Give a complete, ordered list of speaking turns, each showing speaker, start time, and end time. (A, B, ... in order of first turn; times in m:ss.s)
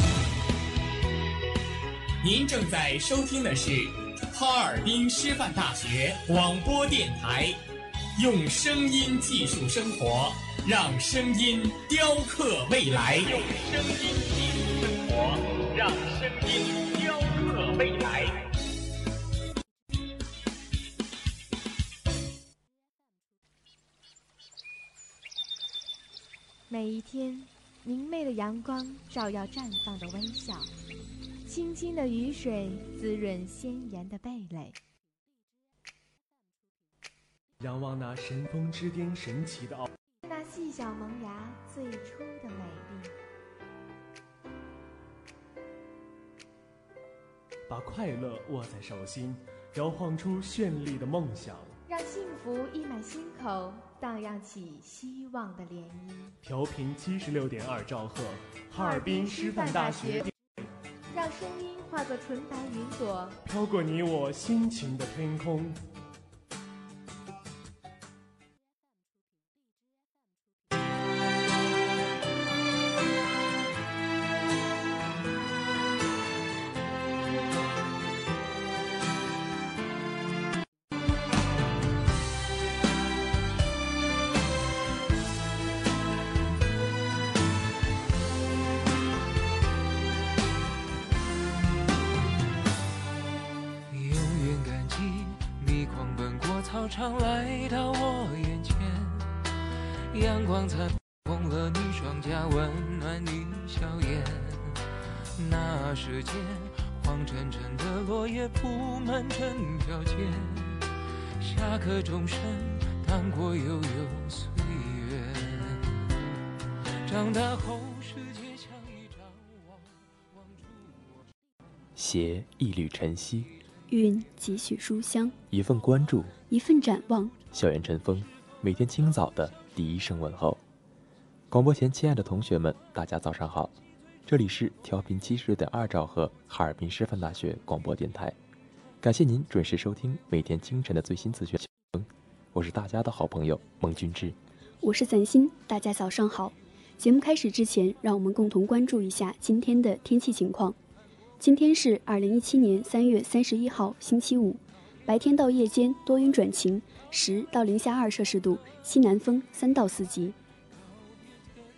0:02.2-0:07.6 A
0:08.2-0:18.5 A
0:26.7-0:30.7 B
0:31.4-0:34.8 B
0:37.6-0:39.9 C
0:40.2-0:43.1 B
0:47.7-0:51.8 C
0:51.9-0:56.4 B
0:56.4-1:00.3 C
0:58.8-1:00.3 B
1:01.1-1:03.4 B
1:03.4-1:05.8 C
1:33.9-1:39.3 D
1:40.1-1:50.9 D
1:51.4-1:56.0 D
1:57.0-1:59.6 D
2:02.0-2:03.5 E
2:03.9-2:05.4 F
2:05.5-2:06.3 E
2:06.5-2:07.4 F
2:07.5-2:10.6 E
2:11.5-2:13.7 E
2:14.3-2:18.4 E
2:19.0-2:24.4 E
2:24.8-2:30.8 F
2:31.4-2:40.4 F